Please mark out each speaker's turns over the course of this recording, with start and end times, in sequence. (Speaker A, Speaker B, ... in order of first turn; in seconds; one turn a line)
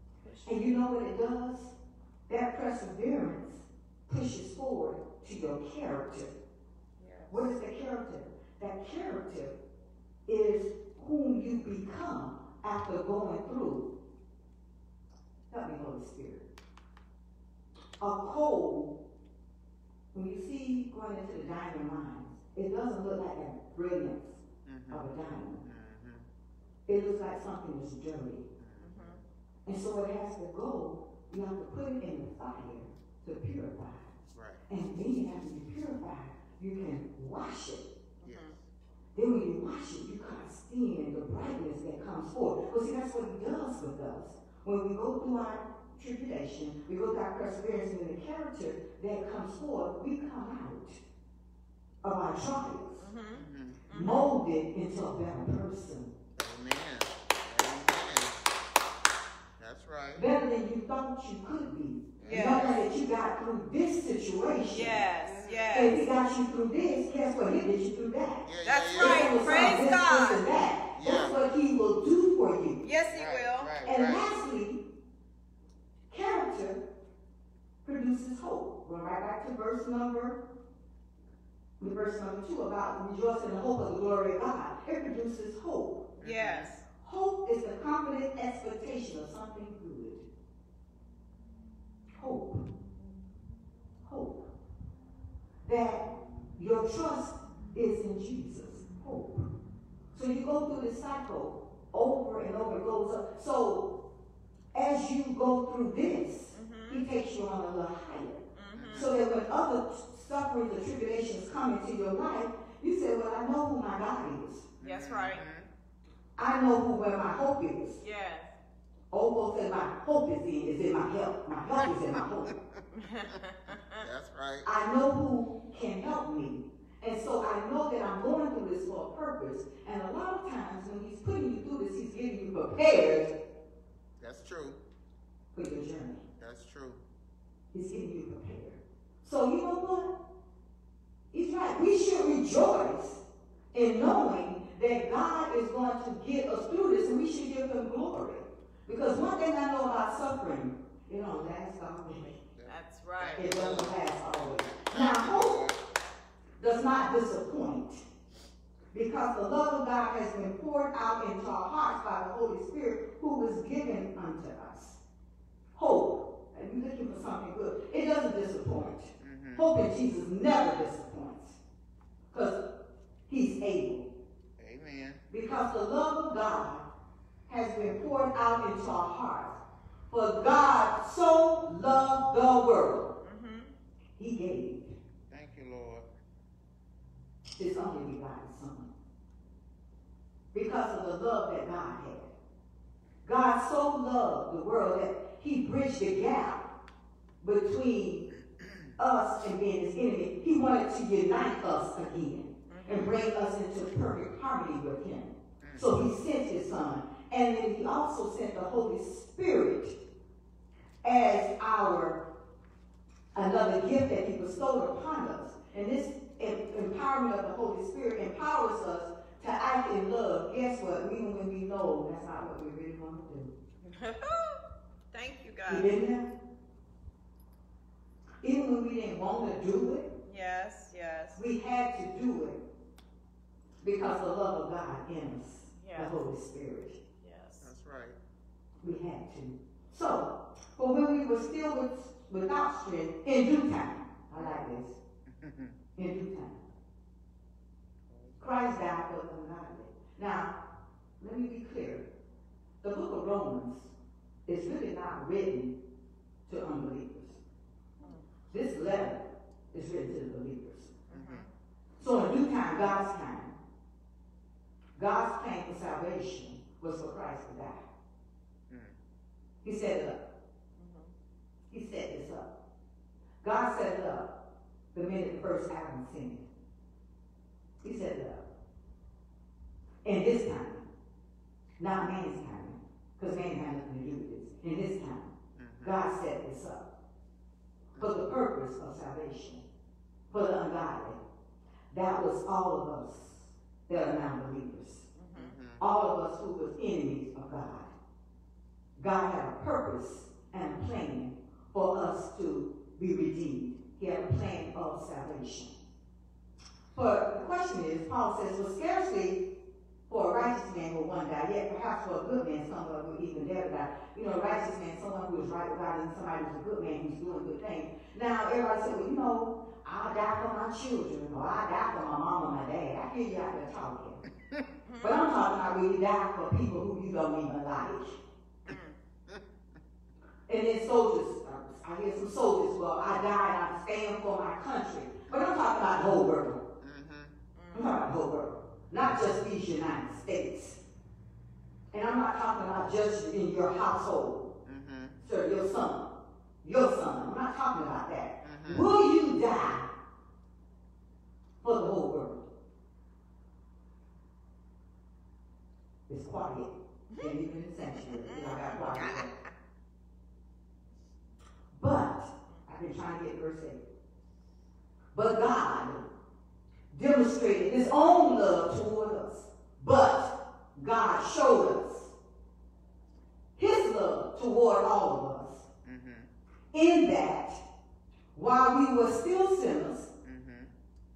Speaker A: 0.2-0.7
Speaker B: 0.5-1.7
Speaker B: 2.3-6.3
Speaker A: 7.0-7.5
Speaker B: 7.3-9.6
Speaker B: 10.3-13.9
Speaker B: 15.5-16.5
Speaker B: 18.0-18.9
Speaker B: 20.1-25.6
Speaker C: 24.6-26.3
Speaker B: 26.9-28.4
Speaker C: 28.6-29.2
Speaker A: 28.8-29.2
Speaker B: 29.7-34.1
Speaker C: 34.3-34.6
Speaker B: 34.7-37.9
Speaker A: 38.2-38.6
Speaker C: 38.2-38.7
Speaker B: 39.1-51.0
Speaker B: 52.0-53.1
Speaker A: 53.0-54.3
Speaker C: 53.3-53.9
Speaker B: 53.9-56.1
Speaker C: 56.4-58.4
Speaker C: 59.6-60.3
Speaker B: 60.2-65.1
Speaker C: 62.2-62.8
Speaker A: 62.2-62.8
Speaker A: 64.7-66.1
Speaker C: 65.2-65.9
Speaker B: 65.7-72.8
Speaker C: 68.5-69.8
Speaker A: 68.6-70.6
Speaker C: 70.9-71.4
Speaker A: 72.8-73.7
Speaker C: 73.1-74.3
Speaker B: 73.8-74.8
Speaker B: 76.1-76.8
Speaker B: 77.8-80.4
Speaker B: 81.8-86.1
Speaker C: 86.2-86.7
Speaker A: 86.2-86.9
Speaker B: 87.0-90.2
Speaker B: 92.2-92.7
Speaker B: 94.0-94.5
Speaker B: 95.7-96.1
Speaker B: 96.6-99.5
Speaker B: 100.1-103.9
Speaker B: 104.7-114.7
Speaker A: 106.5-107.1
Speaker A: 108.5-109.1
Speaker C: 108.7-109.2
Speaker C: 114.8-115.7
Speaker A: 114.8-115.4
Speaker B: 116.4-118.0
Speaker A: 118.0-118.5
Speaker B: 119.1-122.5
Speaker C: 122.1-124.7
Speaker A: 122.9-124.0
Speaker B: 124.6-133.3
Speaker C: 134.2-134.8
Speaker B: 135.5-136.2
Speaker C: 136.4-137.0
Speaker B: 137.7-140.1
Speaker B: 141.3-143.2
Speaker B: 143.7-152.4
Speaker C: 152.2-154.0
Speaker A: 152.7-153.5
Speaker B: 153.4-155.6
Speaker C: 154.7-155.8
Speaker B: 156.6-158.0
Speaker B: 158.9-165.0
Speaker B: 165.8-171.6
Speaker C: 169.1-169.7
Speaker B: 172.3-172.6
Speaker B: 173.3-174.1
Speaker C: 174.6-175.2
Speaker B: 175.3-176.8
Speaker B: 177.5-183.1
Speaker A: 183.2-183.7
Speaker B: 184.2-185.0
Speaker C: 185.3-186.1
Speaker B: 187.6-188.9
Speaker B: 190.5-192.3
Speaker B: 193.2-196.7
Speaker B: 197.4-198.3
Speaker B: 199.0-209.9
Speaker A: 202.7-203.2
Speaker C: 205.6-205.9
Speaker B: 211.0-212.2
Speaker B: 213.3-223.5
Speaker A: 223.8-226.0
Speaker B: 225.7-226.3
Speaker B: 228.4-230.1
Speaker A: 230.2-231.4
Speaker B: 231.4-232.6
Speaker B: 233.8-237.0
Speaker A: 235.8-236.2
Speaker A: 237.2-237.7
Speaker C: 237.6-238.2
Speaker B: 238.8-245.0
Speaker C: 245.3-245.8
Speaker B: 246.0-246.6
Speaker C: 248.1-248.6
Speaker B: 248.4-250.6
Speaker B: 251.2-252.1
Speaker B: 252.8-253.9
Speaker B: 254.5-255.8
Speaker B: 256.5-257.4
Speaker A: 258.0-258.2
Speaker B: 258.5-259.2
Speaker B: 259.7-261.0
Speaker A: 261.1-261.5
Speaker C: 261.1-261.5
Speaker B: 262.0-263.6
Speaker B: 265.0-267.9
Speaker C: 268.7-269.0
Speaker B: 269.6-270.2
Speaker A: 270.8-271.1
Speaker B: 271.7-272.5
Speaker B: 273.4-274.3
Speaker B: 274.9-276.5
Speaker B: 277.8-278.5
Speaker B: 280.1-280.9
Speaker B: 281.8-286.8
Speaker C: 285.6-286.0
Speaker C: 287.9-288.2
Speaker B: 288.0-289.6
Speaker B: 290.3-291.2
Speaker B: 291.9-295.1
Speaker A: 295.1-295.6
Speaker C: 295.4-295.8
Speaker B: 295.8-297.9
Speaker B: 299.0-305.7
Speaker B: 306.9-309.4
Speaker B: 310.1-324.2
Speaker A: 324.9-325.3
Speaker B: 325.0-328.2
Speaker A: 328.7-329.0
Speaker B: 330.5-336.6
Speaker C: 336.8-337.3
Speaker A: 337.6-338.1
Speaker B: 337.7-340.8
Speaker B: 341.9-344.5
Speaker C: 344.6-345.2
Speaker B: 345.2-346.1
Speaker B: 346.6-349.9
Speaker C: 348.4-348.9
Speaker B: 351.6-352.4
Speaker B: 356.1-359.3
Speaker A: 357.9-359.5
Speaker B: 361.7-363.8
Speaker B: 365.1-366.1
Speaker B: 366.9-372.1
Speaker B: 373.6-375.7
Speaker C: 375.9-376.3
Speaker B: 376.7-377.6
Speaker B: 378.3-380.1
Speaker C: 380.2-380.7